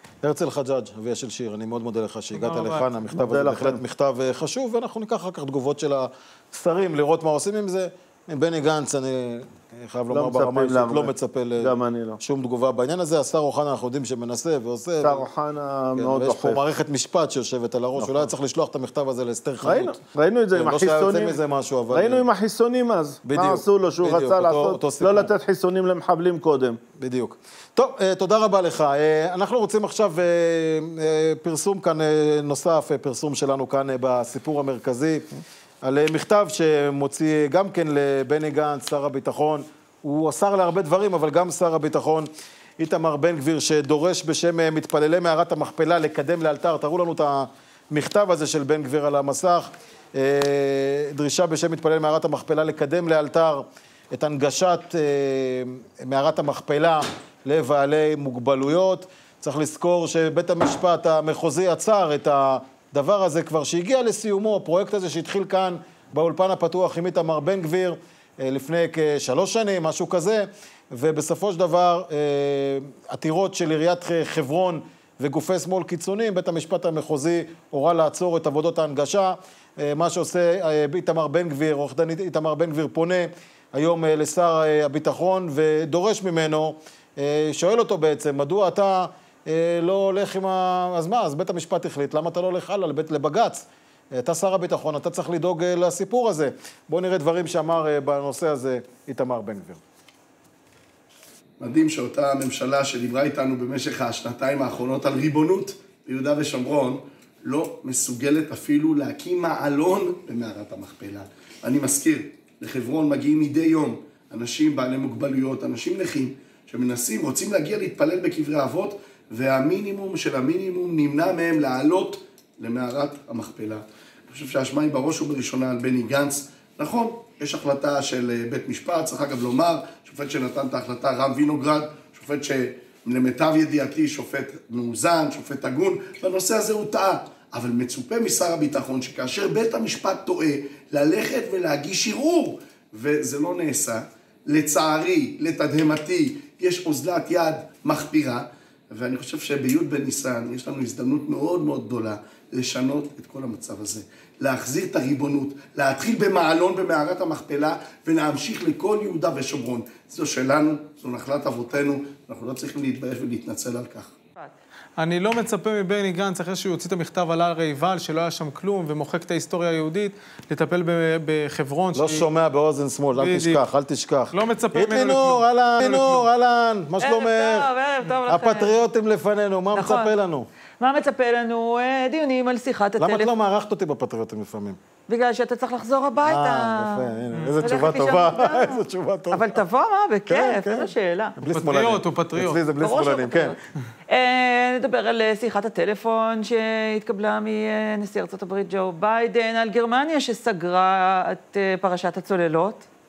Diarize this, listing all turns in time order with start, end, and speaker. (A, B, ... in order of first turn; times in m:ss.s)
0:00.2-0:15.2 A
0:02.3-0:02.9 B
0:03.1-0:03.8 C
0:10.1-0:12.2 C
0:15.0-0:16.6 C
0:16.0-0:20.0 A
0:18.0-0:18.3 C
0:19.6-0:21.4 C
0:20.5-0:22.2 A
0:21.9-0:26.8 C
0:23.2-0:25.3 A
0:27.0-0:35.3 A
0:35.8-1:39.8 A
1:41.6-2:44.1 D
2:45.0-2:52.3 B
2:51.9-2:57.7 A
2:53.2-2:53.6 B
2:54.3-2:56.2 B
2:57.0-2:58.7 E
2:58.3-3:00.5 A
2:59.7-3:00.1 E
3:00.8-3:03.3 E
3:03.0-3:04.8 A
3:05.1-3:11.4 E
3:06.2-3:09.6 A
3:07.4-3:07.7 B
3:10.3-3:13.5 A
3:11.5-3:12.6 B
3:12.7-3:22.8 E